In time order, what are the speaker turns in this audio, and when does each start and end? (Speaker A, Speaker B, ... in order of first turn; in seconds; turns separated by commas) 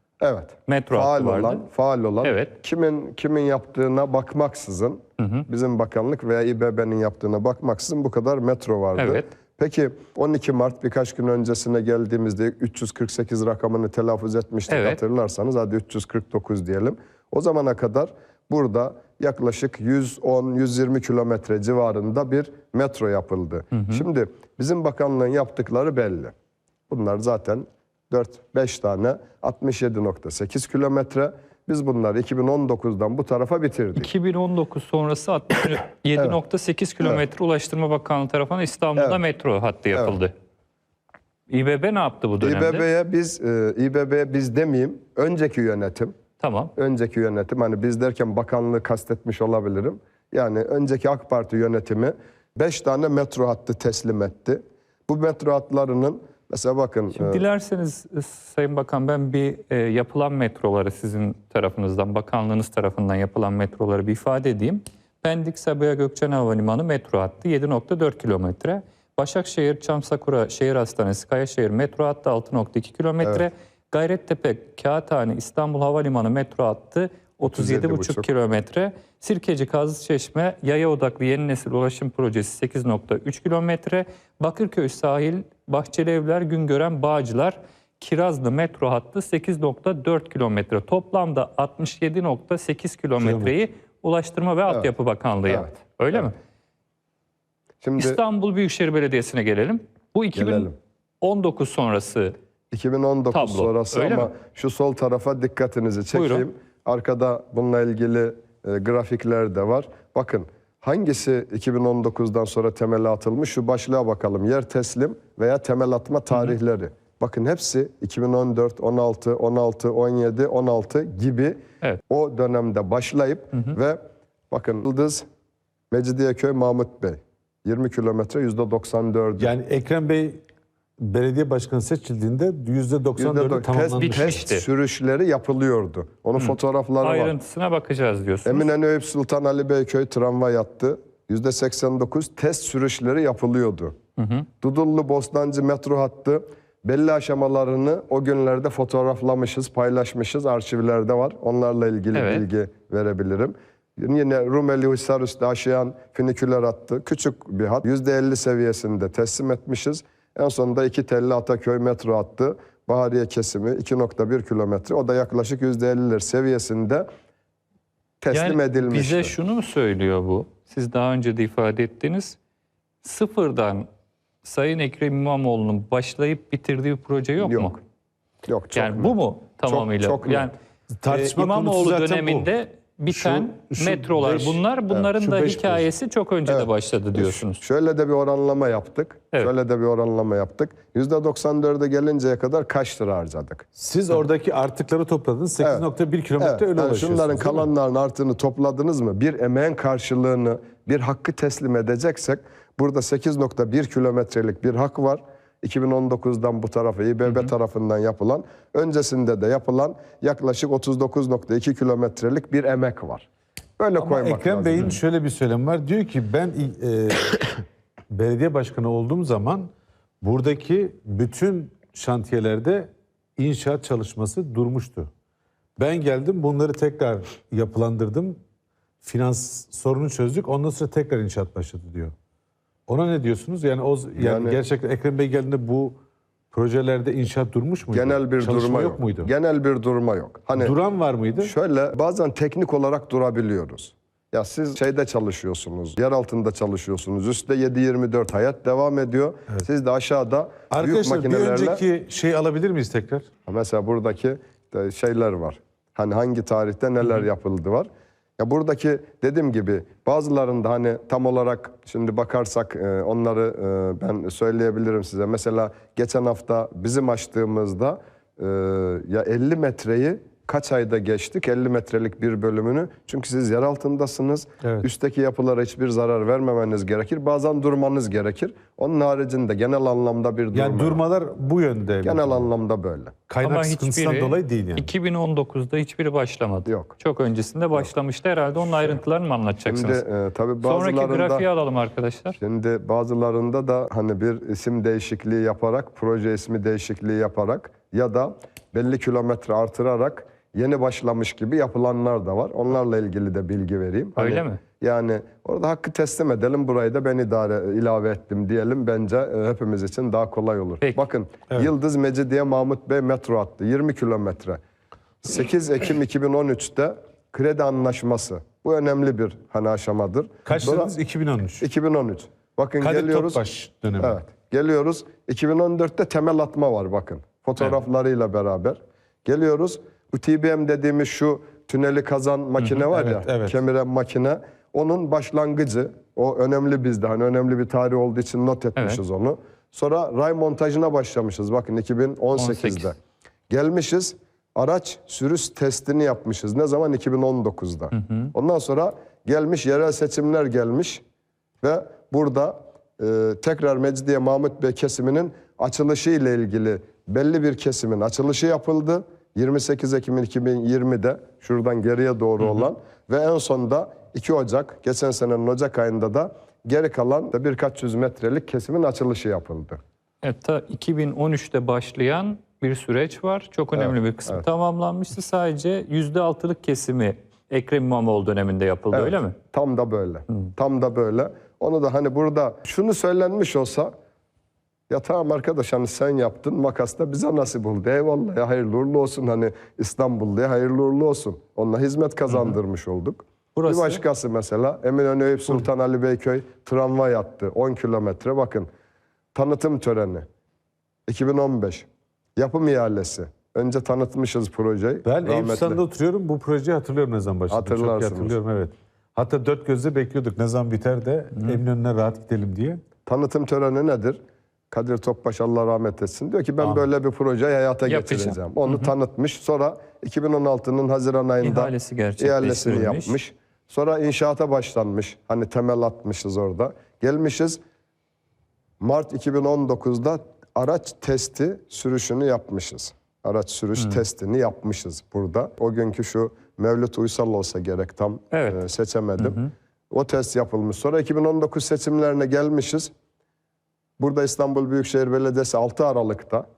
Speaker A: 0.2-26.3, Speaker B: 0.7-1.7, Speaker B: 2.2-2.5, Speaker B: 5.2-5.5, Speaker B: 9.0-9.3, Speaker B: 14.7-15.0, Speaker B: 23.7-24.0, Speaker A: 26.9-34.1, Speaker B: 34.0-40.3, Speaker A: 39.0-39.2, Speaker B: 41.5-42.9, Speaker A: 42.4-46.1, Speaker B: 46.4-46.7, Speaker A: 46.8-57.4, Speaker B: 57.1-96.3, Speaker A: 73.2-73.5, Speaker A: 77.4-78.3, Speaker C: 93.2-93.5, Speaker A: 95.5-96.3, Speaker A: 97.8-98.2, Speaker B: 98.0-102.3, Speaker A: 100.3-100.8, Speaker A: 102.7-124.0, Speaker B: 103.3-104.3, Speaker B: 106.1-106.5, Speaker A: 124.5-125.3, Speaker A: 125.9-129.5, Speaker C: 129.4-130.4, Speaker C: 131.0-134.4, Speaker A: 133.2-137.3, Speaker B: 134.0-134.7, Speaker B: 136.4-138.7, Speaker A: 138.4-144.0, Speaker B: 144.2-144.5, Speaker A: 144.6-167.1, Speaker B: 152.1-152.5, Speaker A: 168.2-169.3, Speaker B: 168.3-172.4, Speaker B: 173.0-173.9, Speaker B: 174.4-177.8, Speaker A: 177.4-177.8, Speaker A: 178.5-180.5, Speaker B: 178.8-180.5, Speaker C: 181.0-182.5, Speaker B: 181.1-187.6, Speaker C: 183.1-184.6, Speaker C: 185.2-185.9, Speaker A: 186.5-194.2, Speaker C: 193.8-197.7, Speaker A: 195.6-195.9, Speaker A: 196.4-213.3, Speaker B: 207.3-207.5, Speaker A: 213.8-215.0, Speaker C: 214.0-219.7, Speaker C: 220.2-225.1, Speaker C: 225.8-228.4, Speaker C: 229.0-232.1, Speaker C: 232.9-236.0, Speaker A: 234.2-234.6, Speaker C: 236.5-239.3, Speaker A: 237.9-240.8, Speaker C: 240.6-241.5, Speaker A: 241.4-251.8, Speaker C: 250.7-253.3, Speaker A: 253.5-281.0, Speaker C: 280.5-282.5, Speaker A: 282.0-283.2, Speaker C: 283.3-284.9, Speaker B: 283.4-290.1, Speaker A: 286.6-287.0, Speaker A: 289.7-291.5, Speaker B: 290.6-292.4, Speaker A: 292.4-314.6, Speaker B: 304.2-304.6, Speaker A: 315.2-320.9, Speaker C: 320.4-321.6, Speaker A: 321.6-323.4, Speaker C: 322.8-324.2, Speaker A: 324.0-343.0, Speaker C: 332.9-333.6, Speaker B: 342.4-342.9, Speaker A: 343.5-351.0, Speaker B: 347.9-348.3, Speaker A: 351.6-369.8, Speaker B: 362.4-362.7, Speaker B: 370.2-379.4, Speaker A: 373.8-374.5, Speaker A: 378.9-383.9, Speaker A: 384.9-398.7, Speaker B: 392.3-392.6, Speaker B: 393.6-394.0, Speaker A: 399.3-400.2, Speaker A: 401.1-405.8, Speaker C: 405.1-412.8, Speaker A: 407.5-408.4, Speaker B: 411.4-411.6, Speaker A: 413.1-414.2, Speaker A: 414.7-427.6, Speaker C: 416.6-416.9, Speaker B: 417.9-418.9, Speaker B: 421.4-423.2, Speaker A: 428.8-439.4, Speaker B: 438.3-438.6, Speaker B: 439.2-439.5, Speaker A: 439.9-442.9, Speaker A: 444.0-446.4